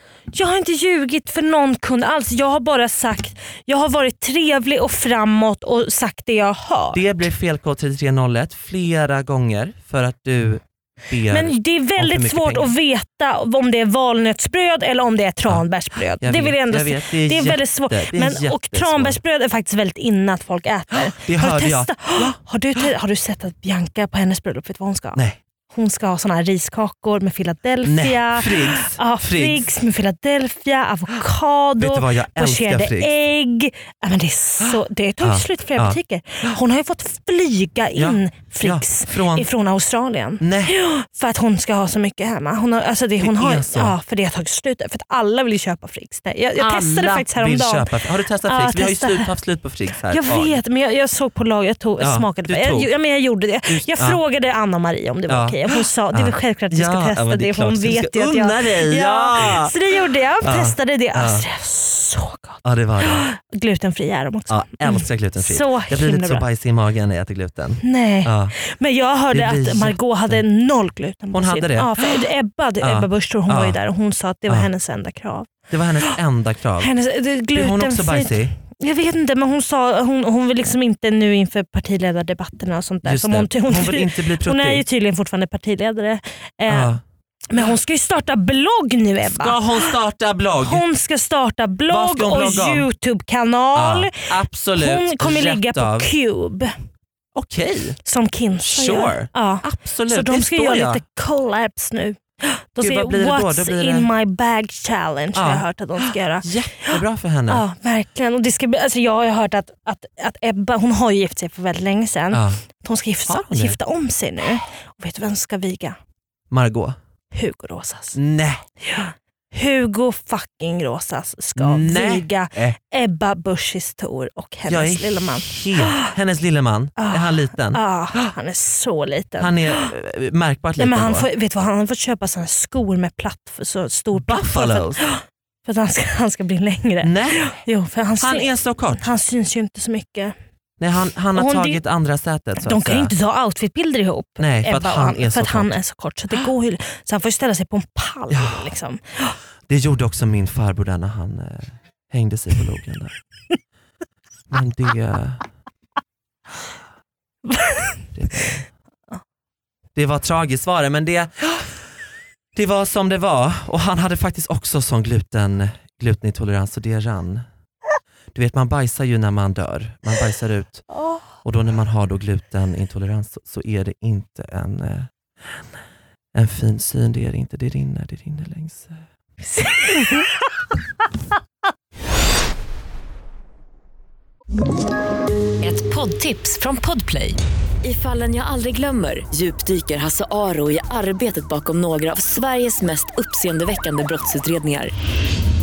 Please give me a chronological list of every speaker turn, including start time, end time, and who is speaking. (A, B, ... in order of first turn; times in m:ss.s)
0:00.3-0:07.0 A
0:06.9-0:12.7 B
0:11.3-0:49.3 A
0:16.2-0:19.2 B
0:21.0-0:22.8 B
0:27.8-0:29.7 B
0:31.8-0:33.2 B
0:34.6-0:36.0 B
0:38.0-0:39.5 B
0:40.4-0:40.8 B
0:43.2-0:44.0 B
0:46.6-0:50.6 B
0:50.1-1:06.4 A
0:52.0-0:52.9 B
0:53.7-0:54.2 B
0:55.3-0:59.8 B
1:00.4-1:01.5 B
1:02.6-1:03.2 B
1:04.5-1:08.6 B
1:07.8-1:15.5 A
1:09.3-1:10.4 B
1:11.3-1:12.0 B
1:12.8-1:13.8 B
1:15.7-1:16.9 B
1:16.8-1:26.9 A
1:17.5-1:18.5 B
1:23.0-1:24.8 B
1:26.7-1:27.0 B
1:27.5-1:30.0 A
1:29.2-1:30.8 B
1:30.6-1:36.7 A
1:31.9-1:32.9 B
1:33.7-1:36.1 B
1:37.3-1:38.0 B
1:38.1-1:56.0 A
1:38.6-1:41.0 B
1:42.8-1:44.1 B
1:45.4-1:47.6 B
1:52.3-1:52.6 B
1:53.3-1:53.8 B
1:56.5-1:57.0 B
1:57.3-1:58.2 A
1:58.2-1:58.6 B
1:58.8-2:06.1 A
2:01.6-2:02.8 B
2:04.7-2:08.2 B
2:07.0-2:09.9 A
2:09.4-2:11.3 B
2:10.8-2:20.4 A
2:14.1-2:15.0 B
2:17.0-2:17.5 B
2:18.2-2:19.1 B
2:20.8-2:23.1 B
2:21.4-2:21.8 A
2:22.6-2:29.4 A
2:24.4-2:25.8 B
2:28.3-2:28.7 B
2:29.7-2:33.1 B
2:34.5-2:35.4 B
2:37.5-2:38.0 A
2:38.2-2:38.7 B
2:40.0-2:41.8 B
2:42.6-2:47.4 B
2:48.3-2:50.8 B
2:51.4-2:55.6 B
2:56.3-2:59.0 B
2:59.5-3:00.3 A
3:05.6-3:14.9 C